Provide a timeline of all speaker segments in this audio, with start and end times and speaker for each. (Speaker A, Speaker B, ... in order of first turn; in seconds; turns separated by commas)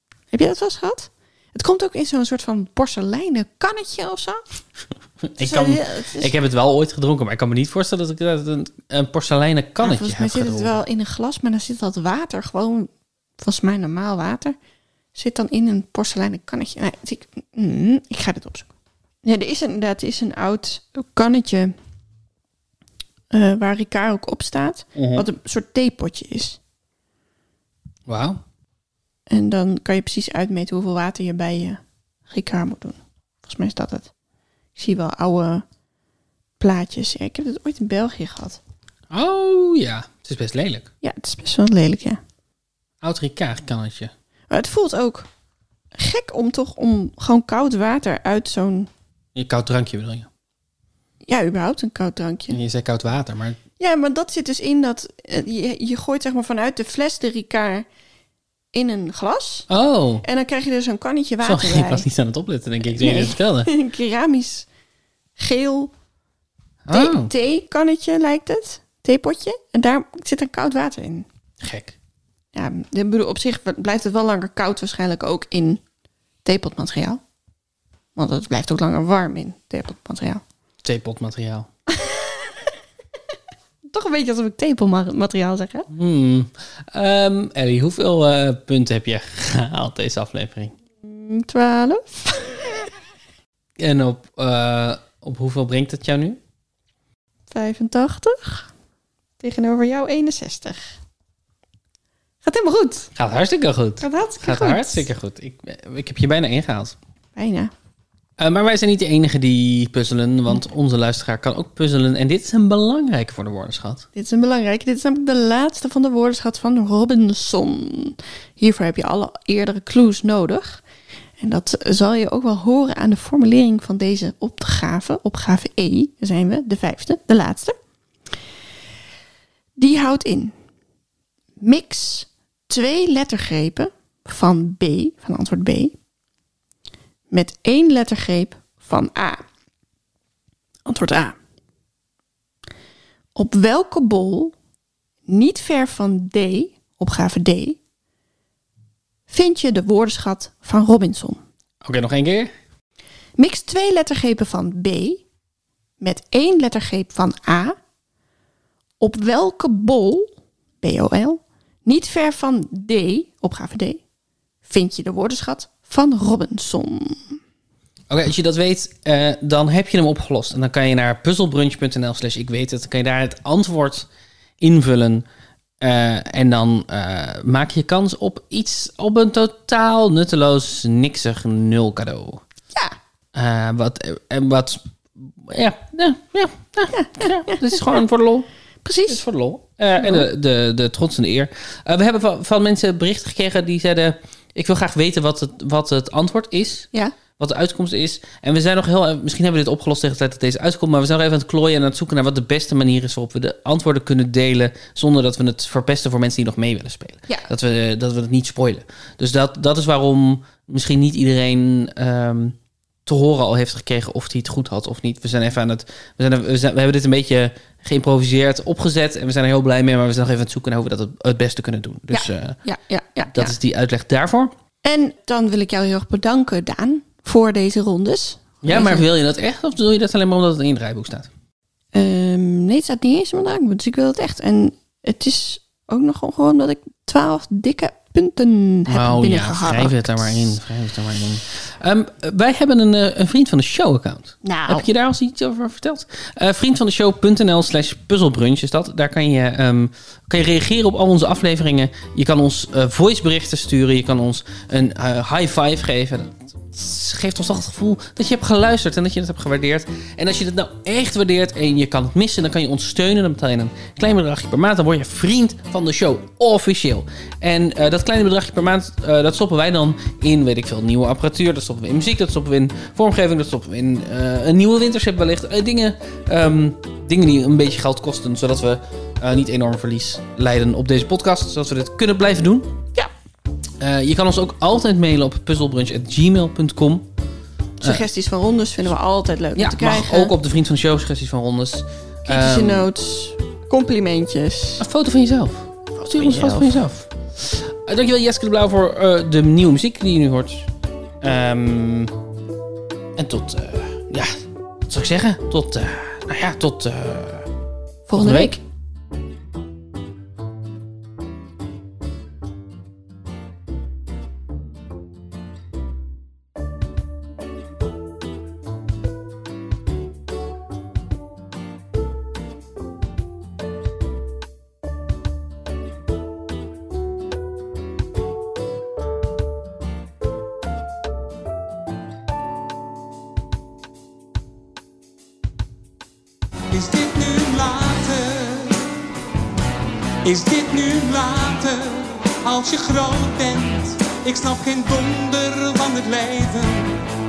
Speaker A: 0.3-4.4, Speaker B: 5.3-10.8, Speaker A: 5.4-6.3, Speaker A: 9.8-14.6, Speaker A: 15.1-18.7, Speaker A: 19.2-21.7, Speaker A: 23.3-26.6, Speaker B: 24.9-25.2, Speaker B: 28.1-28.4, Speaker A: 29.3-34.1, Speaker A: 34.7-35.6, Speaker A: 36.6-38.6, Speaker B: 39.1-40.9, Speaker A: 41.0-42.2, Speaker B: 43.0-44.1, Speaker A: 44.5-45.3, Speaker A: 46.0-48.9, Speaker B: 49.3-50.3, Speaker A: 51.2-52.6, Speaker B: 52.5-53.6, Speaker A: 53.8-57.9, Speaker A: 58.7-59.7, Speaker B: 59.7-60.2, Speaker A: 60.2-62.0, Speaker B: 61.4-63.7, Speaker A: 62.9-64.7, Speaker A: 65.4-65.9, Speaker B: 66.8-67.3, Speaker A: 66.9-71.2, Speaker B: 71.6-72.0, Speaker A: 72.5-75.8, Speaker A: 76.4-77.2, Speaker A: 78.2-80.4, Speaker B: 80.8-81.7, Speaker A: 81.9-82.7, Speaker A: 83.9-85.9, Speaker B: 85.9-90.7, Speaker A: 91.0-92.9, Speaker B: 93.8-96.4, Speaker A: 97.5-98.7, Speaker A: 99.4-100.9, Speaker A: 102.4-103.1, Speaker B: 103.2-107.0, Speaker A: 104.0-105.1, Speaker A: 107.3-107.7, Speaker B: 108.4-114.0, Speaker A: 114.1-120.8, Speaker A: 121.4-127.7, Speaker A: 129.8-130.5, Speaker A: 131.6-135.9, Speaker A: 137.3-139.4, Speaker A: 140.8-141.3, Speaker A: 143.3-144.5, Speaker A: 145.3-147.8, Speaker A: 149.3-151.4, Speaker B: 151.8-152.5, Speaker A: 153.4-155.2, Speaker A: 156.0-157.8, Speaker A: 159.0-160.3, Speaker A: 160.8-164.0, Speaker A: 164.6-167.4, Speaker B: 168.1-174.1, Speaker B: 174.6-175.2, Speaker B: 175.8-182.4, Speaker B: 183.3-188.5, Speaker A: 186.9-187.8, Speaker A: 188.8-189.2, Speaker B: 189.1-222.6, Speaker A: 190.0-190.2, Speaker A: 222.1-223.5, Speaker B: 223.3-224.5, Speaker A: 224.8-229.1, Speaker B: 228.6-231.3, Speaker A: 231.9-240.5, Speaker B: 238.9-282.7, Speaker A: 244.4-244.9, Speaker B: 283.8-287.1, Speaker A: 287.8-290.3, Speaker B: 289.6-292.9, Speaker A: 292.2-294.9, Speaker B: 294.8-300.7, Speaker A: 296.1-296.9, Speaker B: 301.2-302.1, Speaker B: 303.2-304.3, Speaker B: 304.9-307.5, Speaker A: 308.1-308.6, Speaker B: 308.1-308.6, Speaker C: 336.7-338.9, Speaker C: 340.2-347.0